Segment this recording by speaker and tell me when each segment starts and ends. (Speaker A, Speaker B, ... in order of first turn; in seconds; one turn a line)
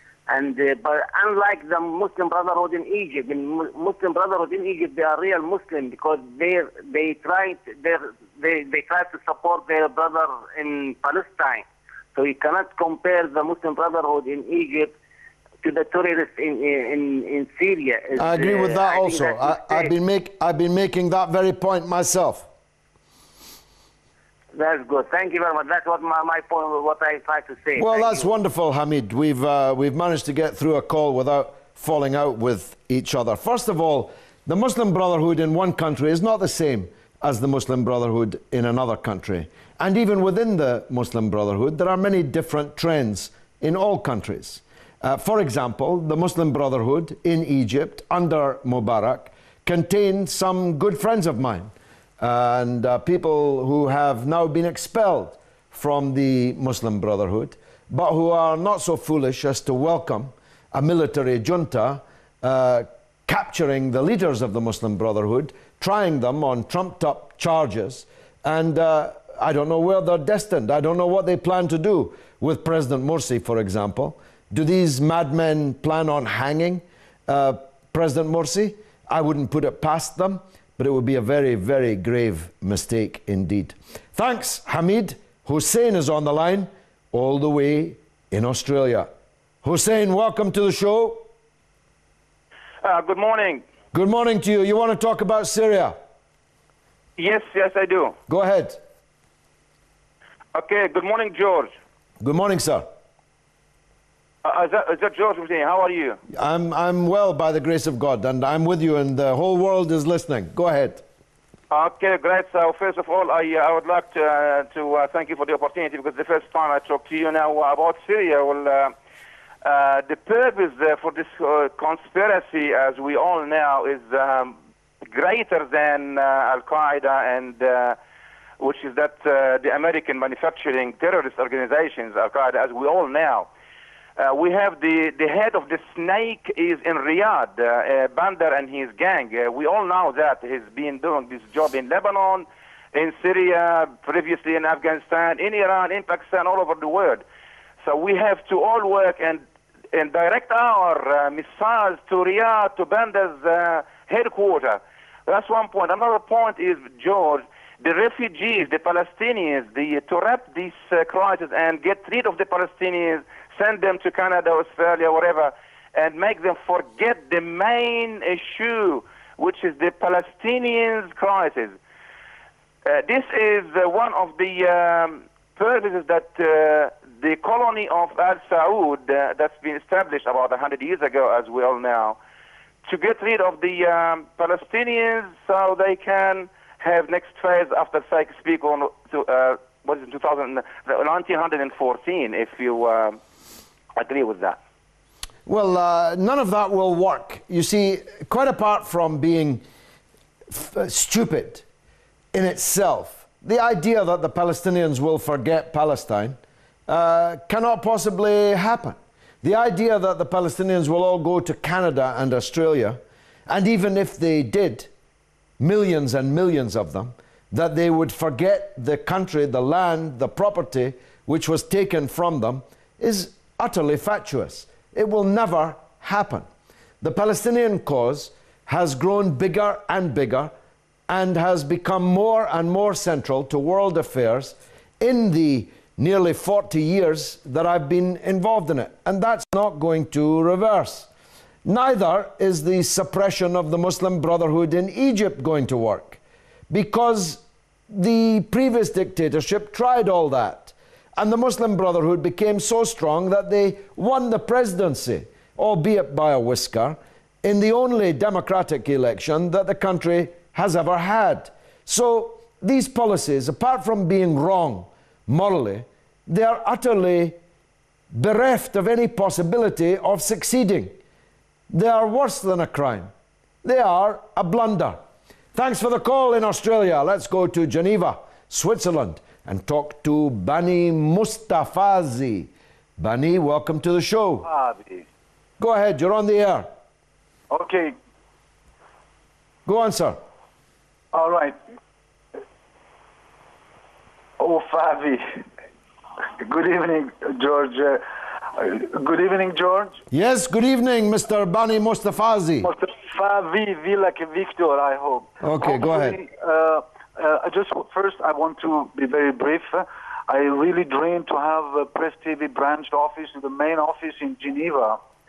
Speaker A: 0.3-14.9
Speaker A: 15.6-19.9
Speaker B: 18.2-22.5
Speaker A: 24.5-28.3
Speaker B: 27.8-89.1
Speaker B: 89.6-91.2
Speaker C: 92.8-93.6
Speaker B: 93.9-96.0
Speaker C: 97.2-98.2
Speaker B: 98.3-98.8
Speaker C: 100.5-101.7
Speaker B: 102.2-102.8
Speaker C: 104.4-106.2
Speaker B: 106.3-111.0
Speaker C: 111.7-118.9
Speaker C: 119.6-124.6
Speaker C: 125.1-128.0
Speaker C: 128.6-133.5
Speaker C: 134.2-147.2
Speaker C: 147.8-171.8
Speaker C: 172.8-182.2
Speaker C: 182.8-193.2
Speaker C: 193.9-194.6
Speaker B: 195.4-199.6
Speaker B: 200.5-201.6
Speaker B: 202.3-214.9
Speaker B: 215.6-226.5
Speaker B: 227.0-230.5
Speaker B: 231.1-241.1
Speaker B: 241.6-267.4
Speaker B: 268.1-270.9
Speaker B: 271.7-273.1
Speaker B: 273.6-275.0
Speaker B: 275.5-284.5
Speaker D: 284.4-285.1
Speaker B: 285.6-286.7
Speaker D: 287.5-287.9
Speaker B: 289.6-290.2
Speaker D: 291.1-291.5
Speaker D: 294.4-295.2
Speaker D: 296.4-300.0
Speaker B: 300.1-302.7
Speaker D: 302.6-315.0
Speaker B: 305.4-306.2